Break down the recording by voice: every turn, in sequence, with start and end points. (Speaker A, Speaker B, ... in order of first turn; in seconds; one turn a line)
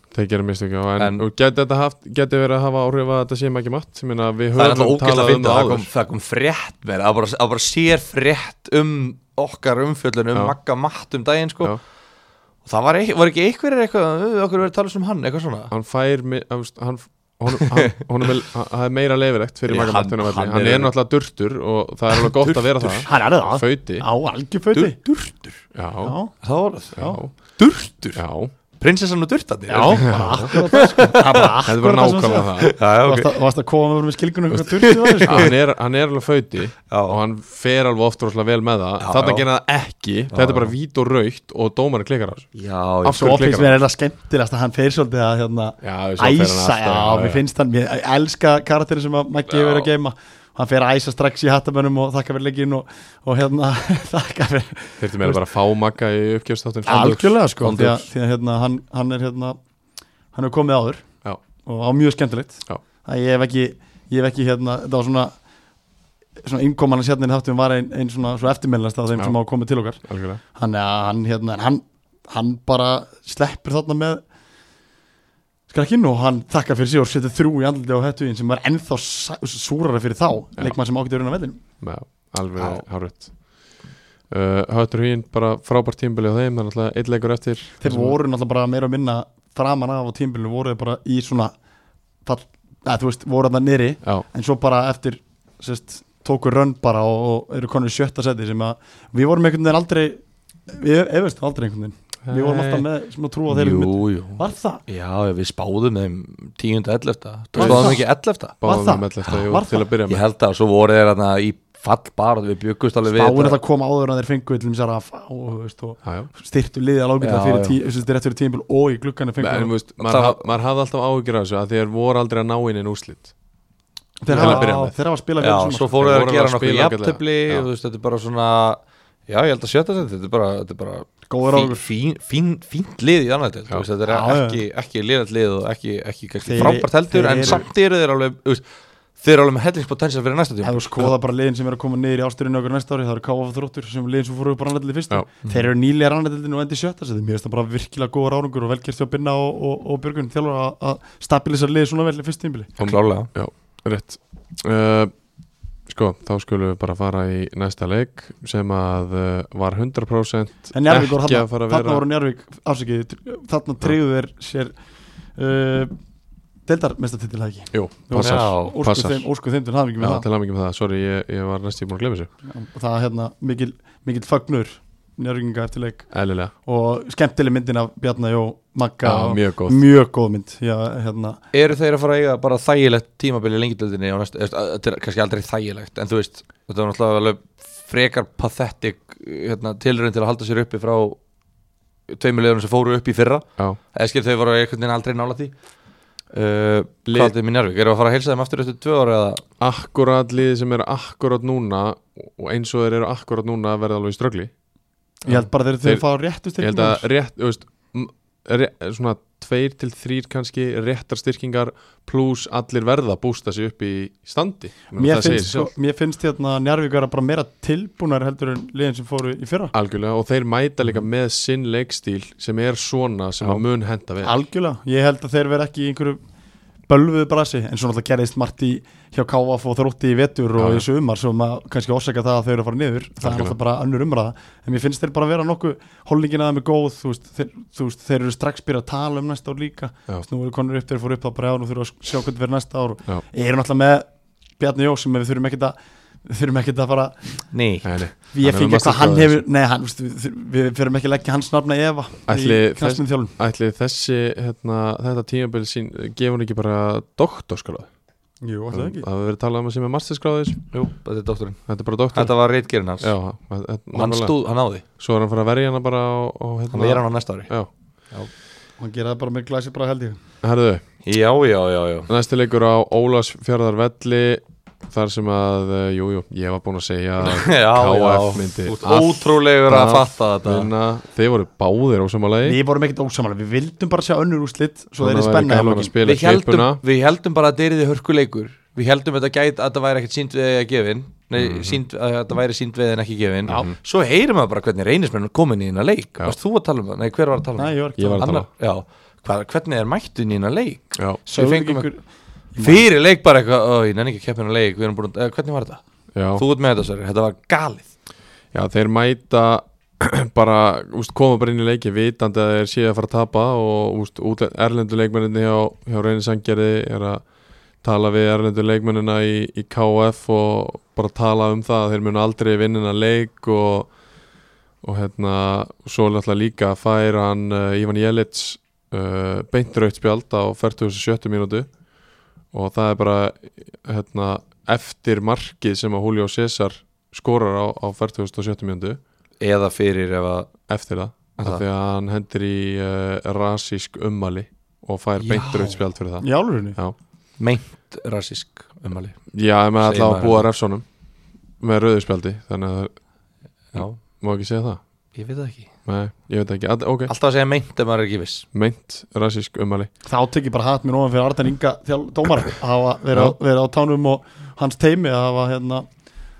Speaker A: 0.1-5.9
Speaker B: 1.0-1.2
Speaker B: 4.5-11.8
Speaker B: 12.6-15.7
Speaker A: 15.7-24.1
Speaker B: 17.5-17.9
Speaker B: 19.7-20.9
Speaker B: 22.1-23.1
Speaker C: 23.1-25.0
Speaker B: 24.7-25.6
Speaker A: 25.7-26.1
Speaker C: 26.0-26.4
Speaker B: 26.4-28.2
Speaker C: 27.0-27.2
Speaker A: 27.0-27.3
Speaker A: 28.1-28.5
Speaker B: 28.7-31.5
Speaker C: 29.7-35.5
Speaker A: 29.9-30.5
Speaker A: 31.6-32.7
Speaker B: 32.6-33.3
Speaker B: 34.7-35.5
Speaker A: 35.2-42.5
Speaker B: 36.9-37.2
Speaker B: 39.0-39.5
Speaker B: 40.3-40.7
Speaker B: 42.5-43.4
Speaker A: 43.0-43.8
Speaker C: 43.1-55.4
Speaker A: 45.8-47.4
Speaker B: 49.5-49.9
Speaker A: 55.0-57.3
Speaker C: 56.9-59.6
Speaker B: 57.6-58.0
Speaker C: 60.3-61.0
Speaker C: 61.6-65.3
Speaker C: 66.4-74.2
Speaker A: 70.0-70.4
Speaker C: 75.7-81.6
Speaker A: 81.8-83.7
Speaker A: 84.3-88.2
Speaker C: 87.8-91.5
Speaker C: 92.2-104.8
Speaker A: 102.2-102.8
Speaker B: 103.5-108.5
Speaker A: 107.5-108.0
Speaker C: 107.6-108.0
Speaker A: 108.6-110.2
Speaker C: 108.6-109.8
Speaker B: 110.1-113.6
Speaker C: 113.0-119.7
Speaker A: 116.0-116.3
Speaker B: 117.2-117.8
Speaker A: 119.4-123.3
Speaker B: 120.0-120.4
Speaker C: 124.2-125.9
Speaker B: 124.3-124.8
Speaker A: 124.3-124.9
Speaker B: 125.4-138.6
Speaker A: 125.9-127.7
Speaker C: 131.3-131.9
Speaker C: 134.1-134.6
Speaker C: 136.4-137.6
Speaker B: 139.2-141.1
Speaker C: 140.6-152.7
Speaker A: 152.8-155.1
Speaker B: 152.8-153.3
Speaker A: 155.8-162.0
Speaker C: 160.7-164.8
Speaker C: 165.3-165.9
Speaker C: 166.7-170.2
Speaker A: 167.7-169.3
Speaker B: 168.2-168.8
Speaker A: 170.0-172.3
Speaker C: 172.4-181.4
Speaker A: 176.1-176.5
Speaker A: 179.0-179.8
Speaker B: 181.5-191.2
Speaker B: 192.1-195.5
Speaker B: 196.3-199.4
Speaker A: 197.1-197.3
Speaker A: 199.6-204.5
Speaker C: 205.2-207.1
Speaker A: 205.3-206.0
Speaker A: 206.6-215.7
Speaker C: 214.9-219.7
Speaker A: 219.7-224.3
Speaker C: 224.2-226.2
Speaker C: 226.9-244.1
Speaker A: 230.6-230.8
Speaker A: 233.2-233.6
Speaker C: 244.6-247.4
Speaker B: 247.5-247.9
Speaker A: 247.8-249.4
Speaker C: 248.3-253.3
Speaker A: 252.3-257.9
Speaker C: 258.4-259.1
Speaker A: 258.7-260.6
Speaker B: 260.7-261.6
Speaker A: 261.7-262.3
Speaker B: 262.1-263.1
Speaker A: 263.0-264.4
Speaker B: 263.9-264.8
Speaker A: 265.0-267.7
Speaker B: 266.7-267.5
Speaker C: 268.8-270.2
Speaker A: 270.4-270.8
Speaker B: 271.0-272.1
Speaker A: 272.1-282.6
Speaker B: 277.2-280.7
Speaker C: 282.4-285.9
Speaker A: 285.0-286.8
Speaker B: 286.0-301.9
Speaker A: 291.4-291.8
Speaker A: 293.5-293.8
Speaker C: 297.6-298.3
Speaker A: 298.0-298.5
Speaker C: 301.3-302.0
Speaker C: 302.5-302.9
Speaker B: 302.6-305.8
Speaker A: 306.1-306.4
Speaker B: 306.3-307.9
Speaker A: 308.5-317.2
Speaker A: 317.8-323.9
Speaker A: 324.8-331.7
Speaker A: 332.5-339.0
Speaker B: 339.4-340.6
Speaker A: 340.7-346.9
Speaker B: 341.4-341.6
Speaker B: 345.2-345.8
Speaker C: 346.2-346.8
Speaker B: 347.4-349.3
Speaker A: 349.3-350.9
Speaker B: 349.8-350.4
Speaker A: 351.6-352.9
Speaker B: 353.7-354.0
Speaker A: 353.7-354.8
Speaker B: 355.1-355.7
Speaker A: 355.8-357.1
Speaker B: 357.1-358.4
Speaker A: 358.5-359.9
Speaker C: 360.0-365.9